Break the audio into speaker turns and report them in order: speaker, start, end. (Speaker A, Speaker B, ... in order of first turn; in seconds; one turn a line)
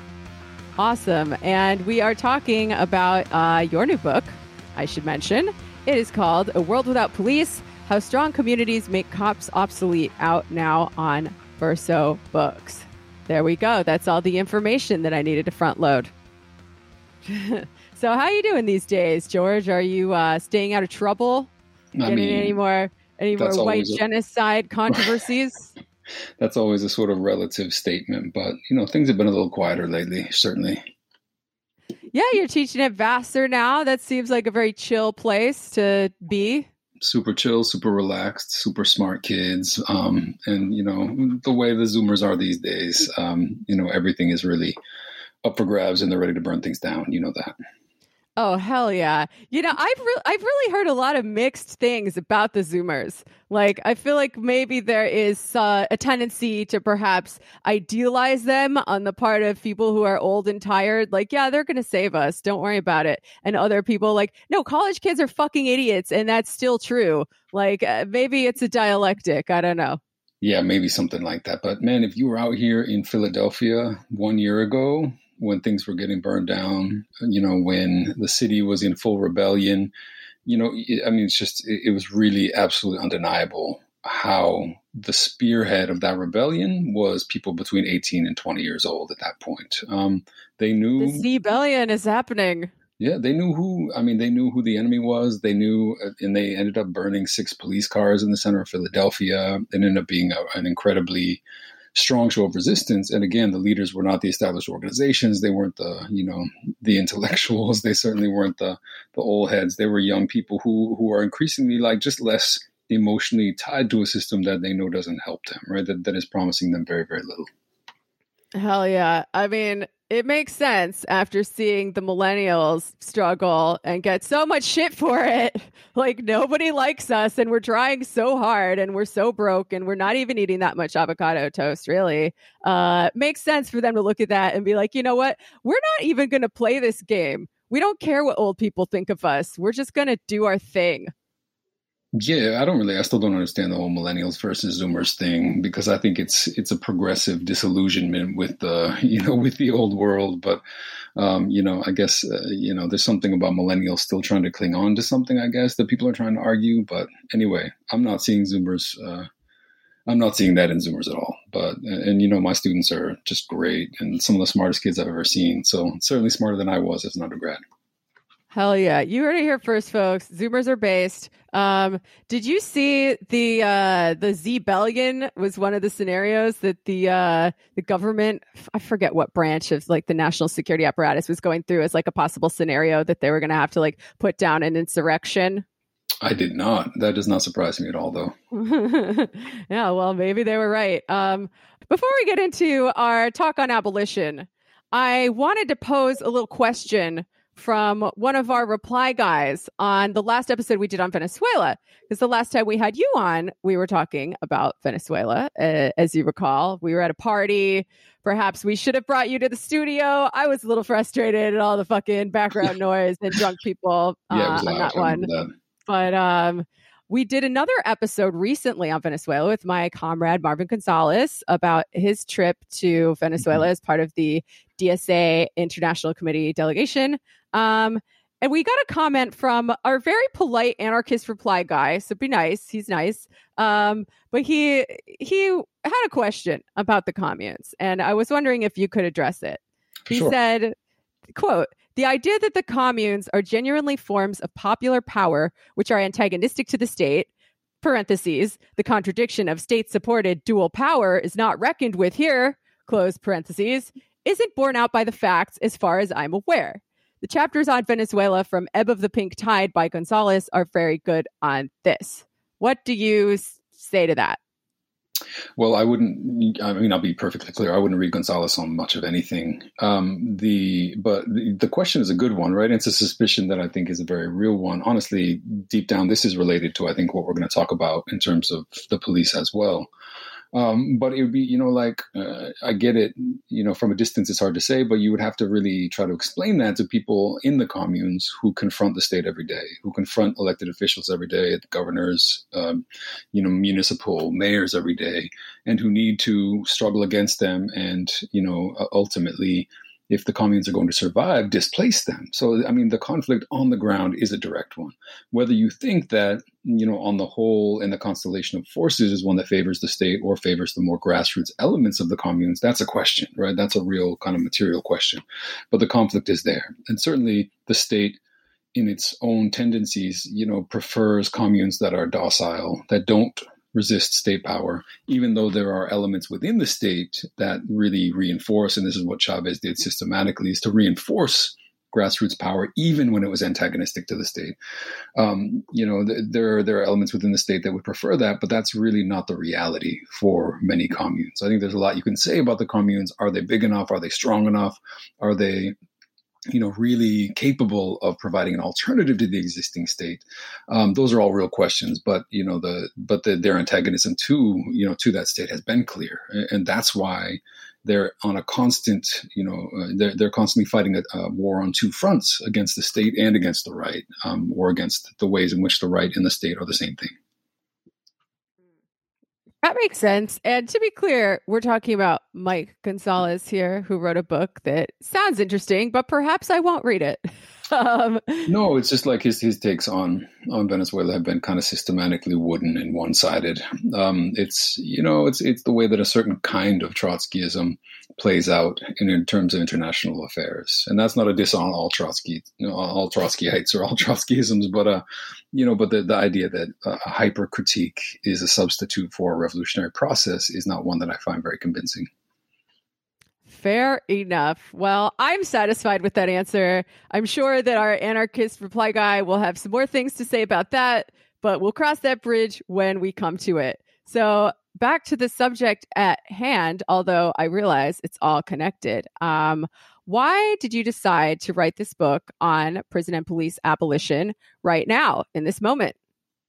Speaker A: 0.8-16.1
Speaker A: 17.3-21.5
Speaker B: 22.0-22.6
Speaker A: 22.0-25.7
Speaker B: 23.4-24.0
Speaker B: 26.4-30.8
Speaker A: 32.1-36.7
Speaker B: 37.0-44.8
Speaker B: 45.4-47.5
Speaker A: 48.4-70.0
Speaker B: 70.4-79.9
Speaker B: 80.5-91.3
Speaker A: 91.0-92.7
Speaker B: 93.0-101.4
Speaker B: 101.9-117.5
Speaker A: 118.5-141.1
Speaker B: 142.2-150.6
Speaker B: 151.2-159.3
Speaker B: 160.1-167.6
Speaker A: 168.5-185.7
Speaker B: 186.2-188.3
Speaker A: 188.5-215.3
Speaker B: 214.3-215.5
Speaker A: 215.9-240.8
Speaker B: 240.1-240.3
Speaker A: 241.3-247.3
Speaker A: 247.8-264.4
Speaker B: 265.6-279.9
Speaker B: 280.5-318.2
Speaker B: 318.7-334.6
Speaker B: 335.2-345.8
Speaker B: 346.5-367.1
Speaker A: 369.6-378.5
Speaker B: 378.5-402.1
Speaker A: 403.5-426.0